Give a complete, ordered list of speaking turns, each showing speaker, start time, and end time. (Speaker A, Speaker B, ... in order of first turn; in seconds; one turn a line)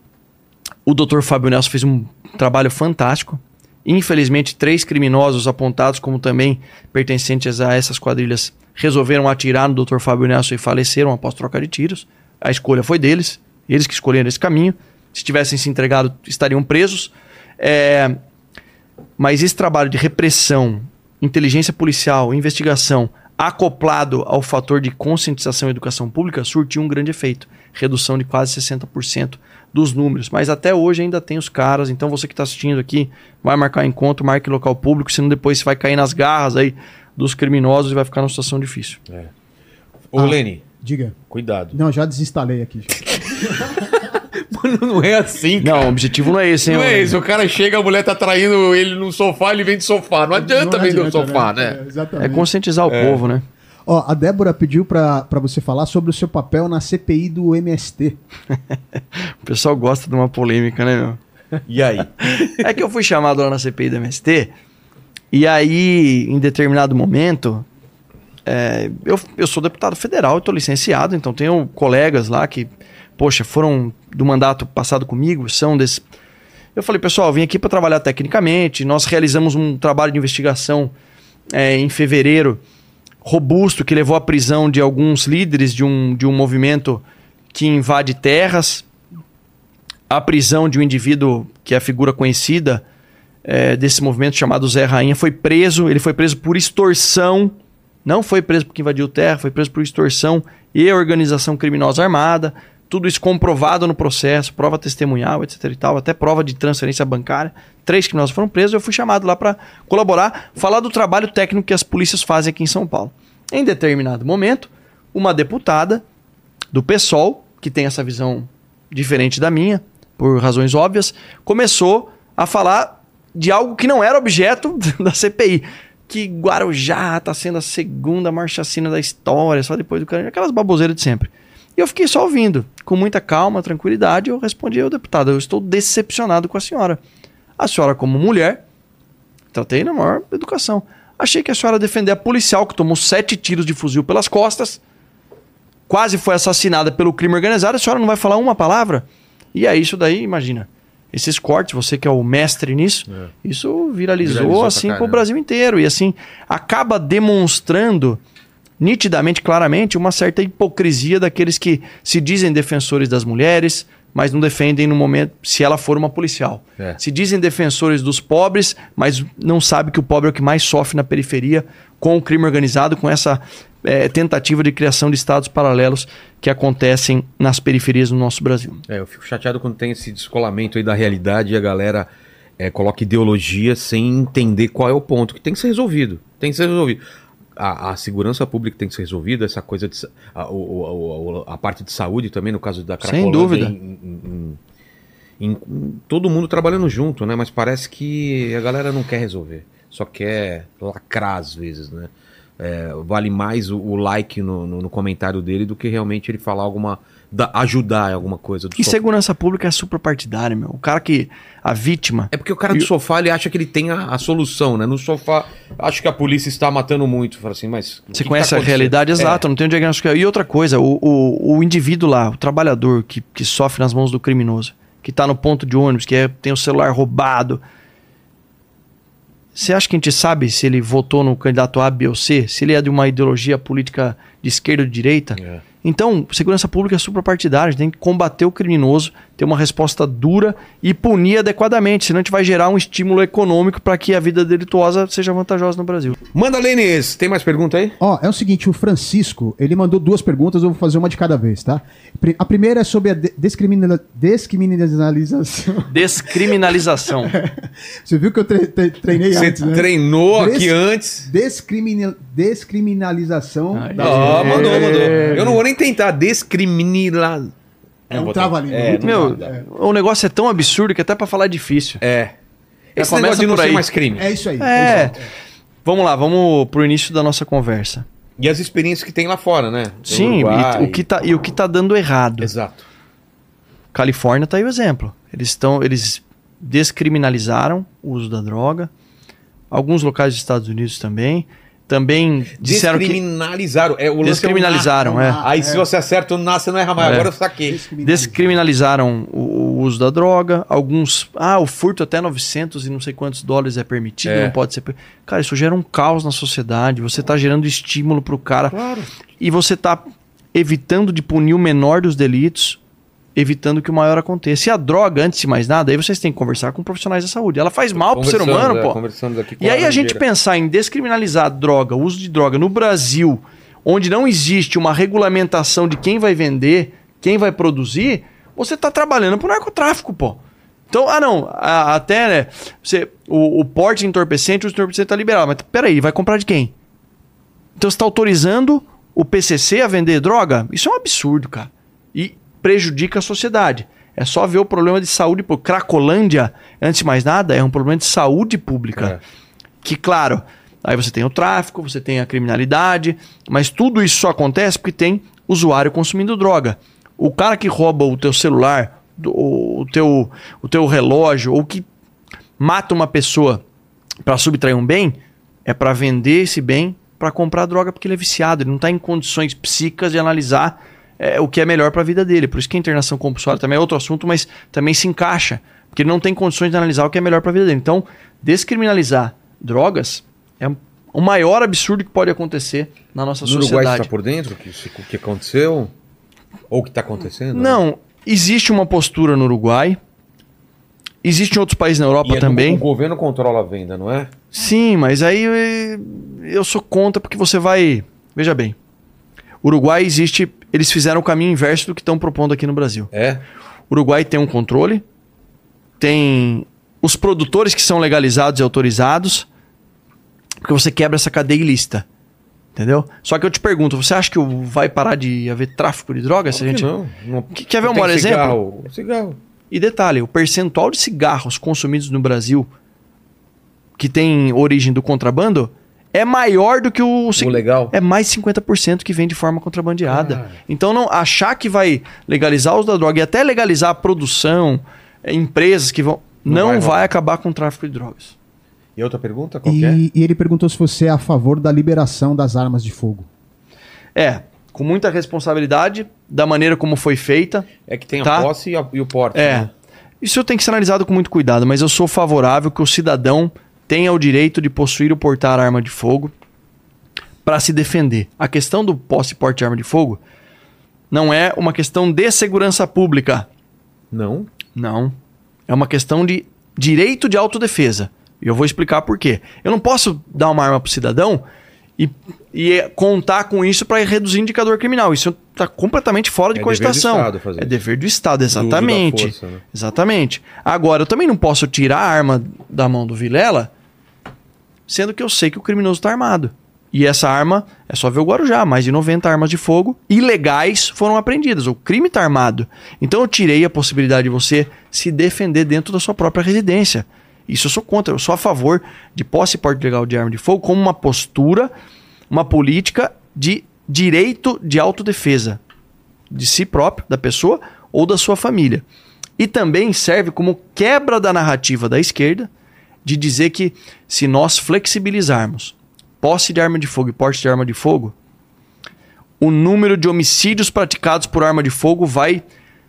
Speaker A: 0.8-18.2
Speaker A: 19.2-39.0
Speaker B: 40.1-40.6
Speaker C: 40.2-41.1
Speaker B: 41.3-41.8
Speaker C: 41.7-43.9
Speaker B: 43.0-46.0
Speaker A: 45.6-47.2
Speaker B: 46.6-51.8
Speaker C: 50.3-52.5
Speaker A: 52.2-53.4
Speaker B: 52.9-53.2
Speaker C: 53.9-58.2
Speaker A: 59.0-61.2
Speaker B: 61.7-62.7
Speaker A: 62.4-64.5
Speaker A: 65.3-67.7
Speaker A: 68.5-76.0
Speaker A: 76.7-80.9
Speaker A: 81.5-82.6
Speaker A: 83.2-88.8
Speaker A: 90.1-92.8
Speaker A: 93.4-116.0
Speaker A: 116.7-137.0
Speaker A: 137.6-138.6
Speaker A: 139.5-144.8
Speaker A: 145.9-158.2
Speaker B: 154.2-155.2
Speaker A: 158.8-178.8
Speaker B: 178.9-182.1
Speaker B: 182.6-187.0
Speaker B: 187.6-194.6
Speaker A: 193.0-193.7
Speaker B: 195.4-209.0
Speaker A: 208.7-212.9
Speaker B: 212.3-219.4
Speaker A: 218.1-227.6
Speaker A: 229.5-246.2
Speaker B: 246.3-248.0
Speaker C: 248.0-256.5
Speaker A: 255.9-257.4
Speaker C: 257.3-265.6
Speaker B: 259.3-261.3
Speaker A: 263.7-265.4
Speaker B: 264.0-267.5
Speaker B: 268.1-269.5
Speaker C: 268.1-269.6
Speaker A: 269.0-272.0
Speaker B: 272.0-272.3
Speaker B: 272.9-275.1
Speaker A: 273.0-273.8
Speaker C: 274.2-275.2
Speaker A: 274.6-275.2
Speaker A: 275.8-278.0
Speaker B: 278.4-281.0
Speaker A: 280.1-282.5
Speaker B: 282.4-282.8
Speaker A: 283.9-288.9
Speaker A: 289.7-293.2
Speaker B: 292.6-297.8
Speaker A: 294.2-295.4
Speaker C: 294.9-295.9
Speaker A: 297.0-297.3
Speaker C: 297.7-298.6
Speaker A: 298.0-308.7
Speaker B: 304.2-304.5
Speaker B: 308.7-309.1
Speaker A: 309.4-312.8
Speaker A: 313.4-319.0
Speaker B: 317.9-320.2
Speaker A: 319.6-336.7
Speaker A: 337.8-349.2
Speaker A: 349.8-361.9
Speaker A: 362.6-363.6
Speaker A: 364.2-384.1
Speaker B: 383.4-385.9
Speaker B: 386.7-387.8
Speaker A: 387.5-390.0
Speaker A: 391.2-392.8
Speaker B: 392.2-394.3
Speaker A: 394.5-398.8
Speaker A: 399.6-403.1
Speaker B: 403.1-403.4
Speaker A: 403.9-405.0
Speaker A: 406.0-409.5
Speaker A: 410.6-412.0
Speaker A: 412.8-416.9
Speaker B: 416.5-419.4
Speaker A: 417.5-418.6
Speaker A: 419.7-422.7
Speaker A: 424.0-438.3
Speaker B: 427.4-427.9
Speaker B: 430.1-430.6
Speaker B: 436.4-437.0
Speaker B: 439.0-440.0
Speaker C: 439.6-443.3
Speaker A: 444.1-447.7
Speaker B: 447.9-449.7
Speaker A: 448.2-448.5
Speaker A: 449.3-449.7
Speaker A: 450.2-456.3
Speaker A: 457.4-460.2
Speaker A: 461.1-463.5
Speaker B: 464.1-464.5
Speaker A: 464.7-465.1
Speaker A: 465.7-471.4
Speaker A: 472.0-483.7
Speaker B: 476.5-477.8
Speaker B: 478.5-479.6
Speaker A: 484.9-501.7
Speaker A: 502.3-505.6
Speaker A: 506.3-508.8
Speaker A: 509.4-512.5
Speaker A: 513.0-518.1
Speaker A: 519.4-522.4